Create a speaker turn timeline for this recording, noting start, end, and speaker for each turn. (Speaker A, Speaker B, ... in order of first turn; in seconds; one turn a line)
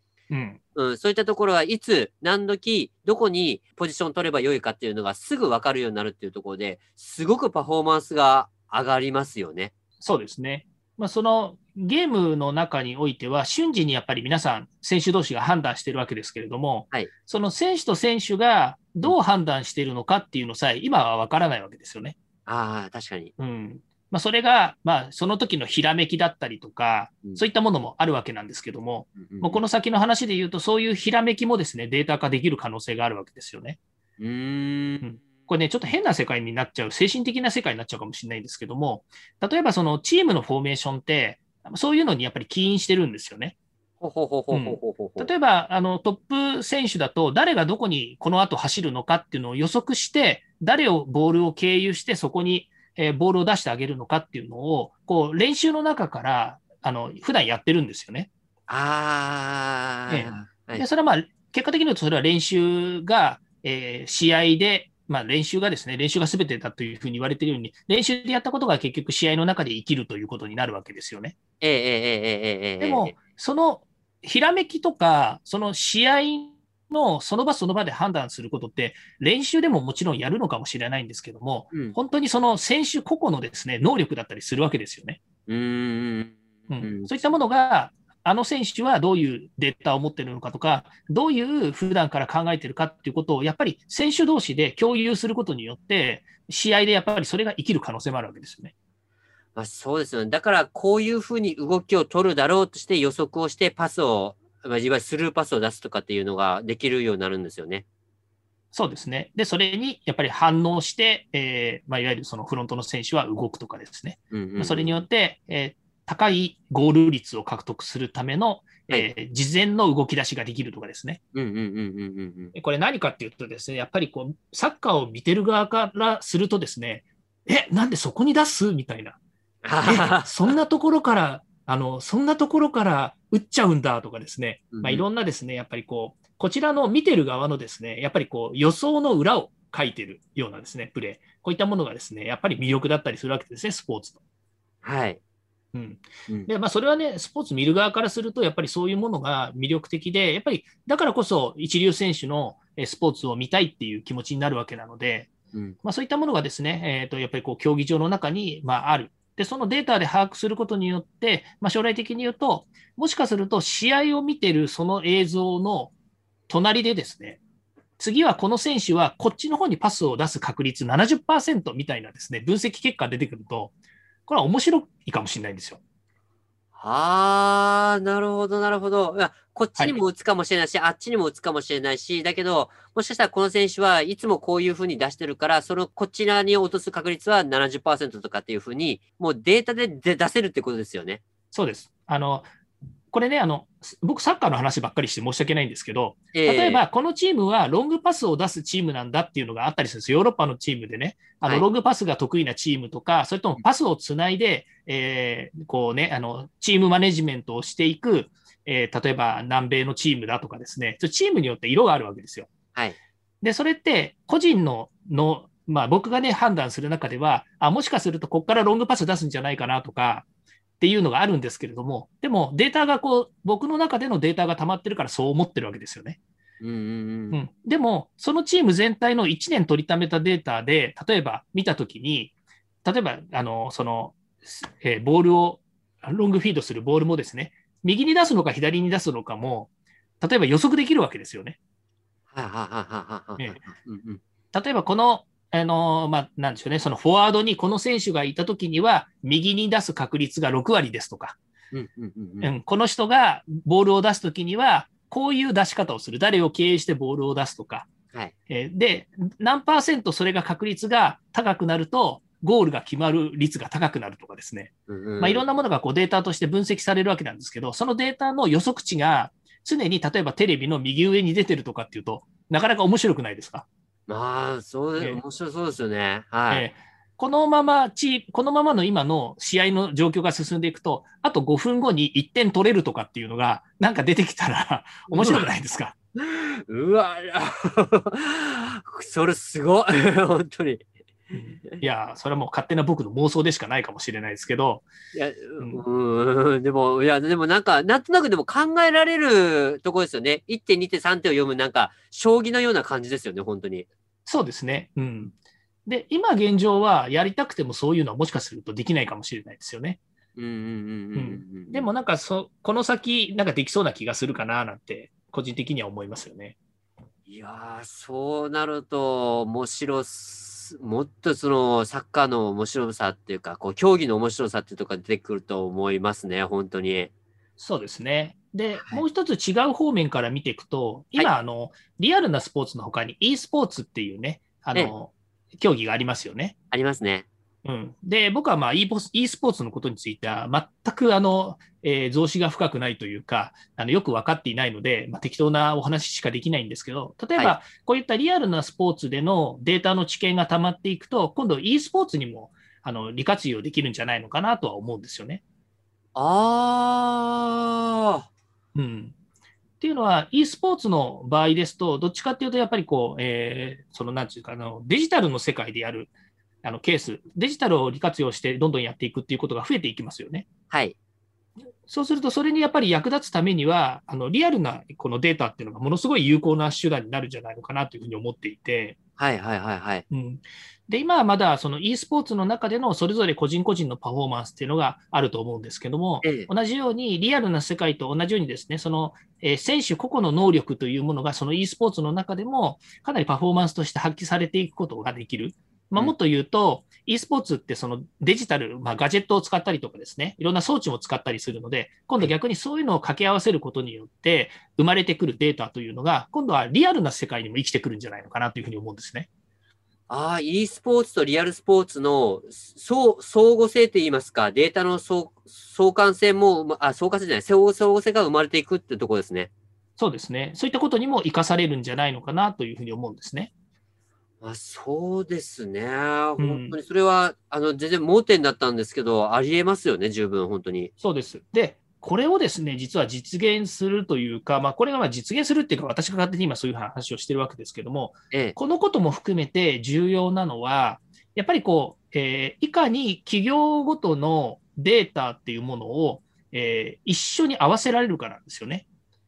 Speaker A: 0.3-0.6
Speaker B: 0.7-9.7
Speaker A: 10.0-22.1
Speaker B: 22.4-23.3
Speaker A: 23.4-33.8
Speaker B: 29.2-29.6
Speaker B: 34.2-35.0
Speaker A: 35.0-43.5
Speaker B: 44.0-45.3
Speaker A: 44.5-58.3
Speaker B: 58.7-60.8
Speaker A: 60.1-71.3
Speaker B: 71.6-73.1
Speaker A: 72.8-85.2
Speaker B: 85.5-87.1
Speaker A: 86.7-98.7
Speaker B: 99.5-107.8
Speaker A: 108.7-121.2
Speaker B: 114.3-115.0
Speaker B: 121.3-122.5
Speaker A: 122.5-129.2
Speaker B: 129.6-130.5
Speaker A: 129.8-144.2
Speaker B: 134.7-135.0
Speaker B: 144.8-145.2
Speaker A: 145.7-155.3
Speaker A: 155.8-165.9
Speaker A: 166.5-167.4
Speaker A: 168.0-173.7
Speaker A: 174.3-175.8
Speaker B: 176.8-191.2
Speaker A: 191.5-192.5
Speaker A: 193.1-212.5
Speaker B: 196.3-196.8
Speaker A: 213.4-220.2
Speaker A: 220.8-226.2
Speaker B: 226.6-227.4
Speaker A: 227.3-232.3
Speaker A: 232.8-239.7
Speaker A: 240.2-241.6
Speaker B: 242.3-244.2
Speaker A: 244.5-251.4
Speaker B: 251.7-252.5
Speaker A: 252.4-257.9
Speaker A: 258.5-273.6
Speaker B: 264.9-265.4
Speaker B: 274.1-276.6
Speaker A: 276.5-285.9
Speaker B: 285.1-285.4
Speaker B: 286.2-291.8
Speaker A: 291.3-294.9
Speaker B: 295.1-303.9
Speaker A: 295.6-295.8
Speaker A: 304.2-310.0
Speaker B: 310.4-311.9
Speaker A: 311.1-316.6
Speaker B: 317.3-327.1
Speaker A: 327.6-336.5
Speaker B: 328.7-329.0
Speaker B: 336.7-337.2
Speaker A: 337.6-355.4
Speaker B: 356.1-358.2
Speaker A: 358.7-359.1
Speaker A: 359.8-366.1
Speaker A: 366.6-370.4
Speaker B: 370.7-370.9
Speaker A: 371.9-379.0
Speaker B: 379.2-380.0
Speaker A: 380.1-409.3
Speaker B: 386.2-386.5
Speaker B: 410.1-419.5
Speaker A: 420.0-423.5
Speaker B: 424.4-430.9
Speaker A: 426.4-426.8
Speaker A: 431.0-448.8